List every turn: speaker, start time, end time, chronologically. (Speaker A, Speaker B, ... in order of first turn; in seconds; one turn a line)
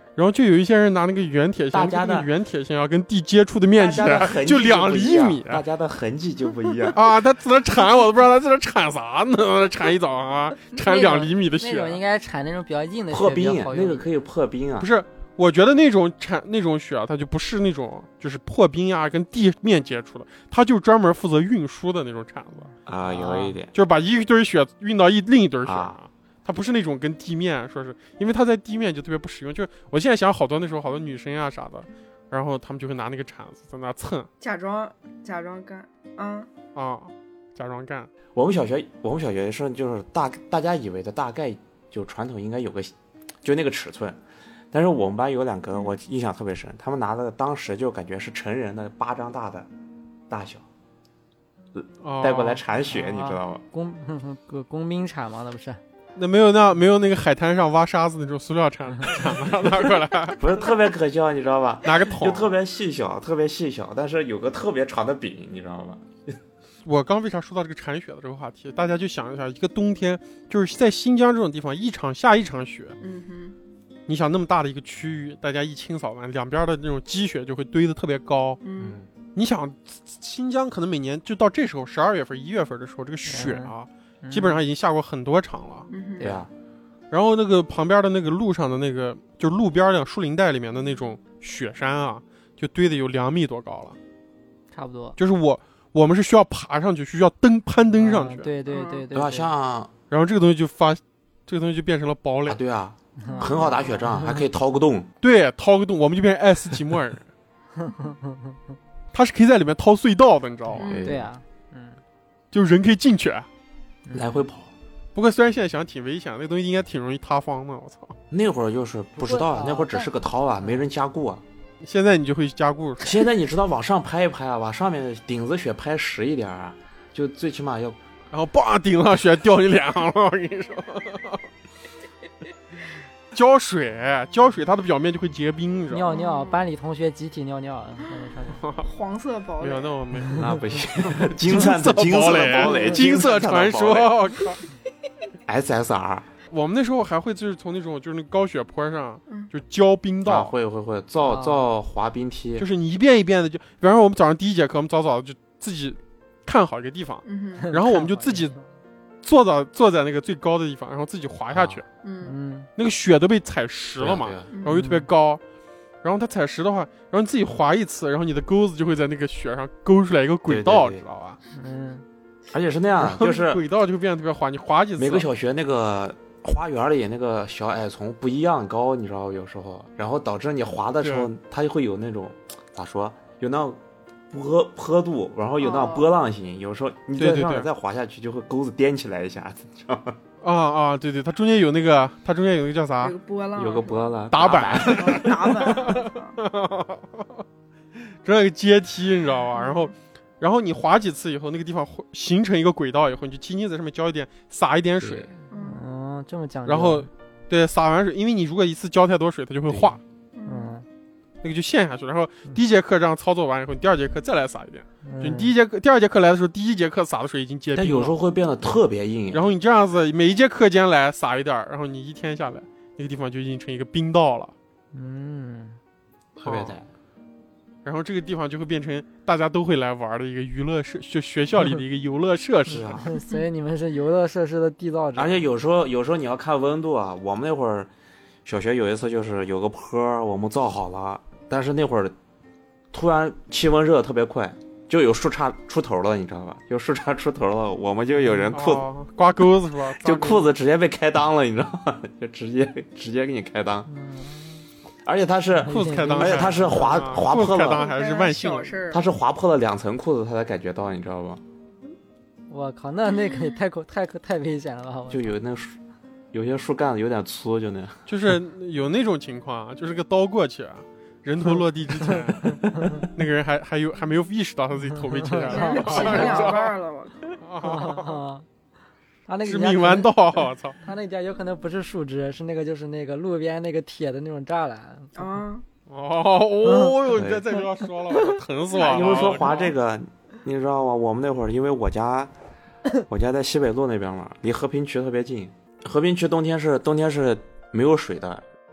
Speaker A: 0.2-5.6
Speaker B: 1.7-2.3
Speaker B: 3.7-7.0
Speaker A: 6.9-12.0
Speaker C: 10.8-14.1
Speaker B: 13.1-14.9
Speaker A: 14.8-22.7
Speaker B: 22.9-23.7
Speaker C: 23.0-23.6
Speaker A: 23.7-34.3
Speaker B: 25.6-26.0
Speaker D: 34.4-36.5
Speaker A: 36.7-38.1
Speaker B: 38.3-44.2
Speaker B: 44.7-49.7
Speaker B: 50.3-50.6
Speaker B: 51.8-53.6
Speaker A: 52.0-52.6
Speaker C: 52.9-55.8
Speaker A: 56.1-60.4
Speaker B: 60.4-66.4
Speaker A: 61.8-62.5
Speaker A: 66.8-73.0
Speaker D: 73.0-73.5
Speaker A: 74.1-78.6
Speaker D: 78.6-79.0
Speaker B: 78.8-79.1
Speaker A: 79.3-85.9
Speaker C: 83.3-84.6
Speaker D: 85.9-86.3
Speaker C: 86.2-86.4
Speaker B: 86.2-86.5
Speaker A: 87.1-94.0
Speaker C: 94.7-95.2
Speaker A: 95.2-98.5
Speaker C: 98.0-99.5
Speaker D: 98.7-99.0
Speaker B: 99.1-99.9
Speaker A: 100.1-102.6
Speaker B: 102.5-105.1
Speaker C: 103.2-104.4
Speaker D: 103.3-104.0
Speaker A: 105.2-107.3
Speaker C: 107.8-108.5
Speaker A: 109.1-111.0
Speaker D: 110.8-111.1
Speaker B: 110.8-111.3
Speaker C: 111.0-112.0
Speaker A: 112.5-113.5
Speaker C: 114.0-114.4
Speaker B: 114.1-114.7
Speaker A: 115.1-118.1
Speaker B: 118.3-121.4
Speaker C: 119.2-120.1
Speaker A: 121.8-123.2
Speaker B: 123.0-128.0
Speaker A: 128.3-131.4
Speaker A: 133.3-136.1
Speaker C: 135.9-138.6
Speaker D: 136.1-136.7
Speaker A: 138.6-138.9
Speaker D: 138.8-140.0
Speaker A: 139.6-140.5
Speaker B: 140.3-144.1
Speaker A: 141.1-144.6
Speaker D: 142.5-142.9
Speaker B: 145.4-146.3
Speaker A: 146.5-150.5
Speaker B: 150.2-152.7
Speaker C: 151.2-151.6
Speaker A: 152.6-158.5
Speaker D: 157.2-157.7
Speaker C: 157.6-158.6
Speaker A: 159.2-161.8
Speaker B: 161.5-161.8
Speaker D: 162.0-162.3
Speaker C: 162.2-162.7
Speaker A: 162.8-165.4
Speaker B: 164.0-164.5
Speaker C: 164.7-165.1
Speaker A: 166.0-171.4
Speaker B: 170.5-171.0
Speaker C: 171.6-172.0
Speaker B: 172.5-173.6
Speaker A: 173.0-175.2
Speaker B: 175.0-183.8
Speaker A: 181.0-181.3
Speaker B: 184.3-190.2
Speaker D: 185.6-186.1
Speaker A: 187.2-187.7
Speaker A: 190.4-193.1
Speaker D: 193.0-194.2
Speaker B: 193.5-195.4
Speaker A: 194.3-197.2
Speaker D: 194.8-196.4
Speaker A: 198.2-205.3
Speaker D: 199.5-199.9
Speaker B: 205.0-205.3
Speaker D: 205.5-205.8
Speaker C: 205.6-207.1
Speaker A: 206.7-210.0
Speaker B: 209.7-210.0
Speaker D: 210.3-210.7
Speaker C: 210.5-210.8
Speaker A: 211.4-218.1
Speaker C: 215.0-215.5
Speaker B: 217.7-219.4
Speaker A: 219.3-224.5
Speaker C: 224.9-225.8
Speaker B: 226.3-226.9
Speaker A: 226.4-226.8
Speaker A: 227.8-232.9
Speaker B: 232.7-233.1
Speaker C: 233.0-235.4
Speaker B: 235.2-237.9
Speaker B: 238.4-242.1
Speaker B: 242.9-248.9
Speaker C: 248.2-248.5
Speaker A: 248.5-250.5
Speaker B: 250.0-253.9
Speaker C: 253.9-254.6
Speaker B: 255.0-257.9
Speaker C: 255.6-257.2
Speaker A: 255.7-258.8
Speaker D: 257.6-259.1
Speaker B: 258.9-261.4
Speaker C: 262.5-265.3
Speaker B: 265.1-265.8
Speaker B: 266.3-268.0
Speaker A: 268.1-276.7
Speaker C: 272.0-273.1
Speaker C: 274.9-276.6
Speaker D: 275.5-277.4
Speaker A: 277.4-278.2
Speaker C: 277.6-278.4
Speaker C: 279.3-280.1
Speaker A: 279.4-280.8
Speaker C: 280.8-285.2
Speaker D: 285.1-285.6
Speaker A: 285.9-289.7
Speaker C: 286.6-286.9
Speaker B: 287.1-287.4
Speaker B: 288.7-292.3
Speaker B: 293.1-298.4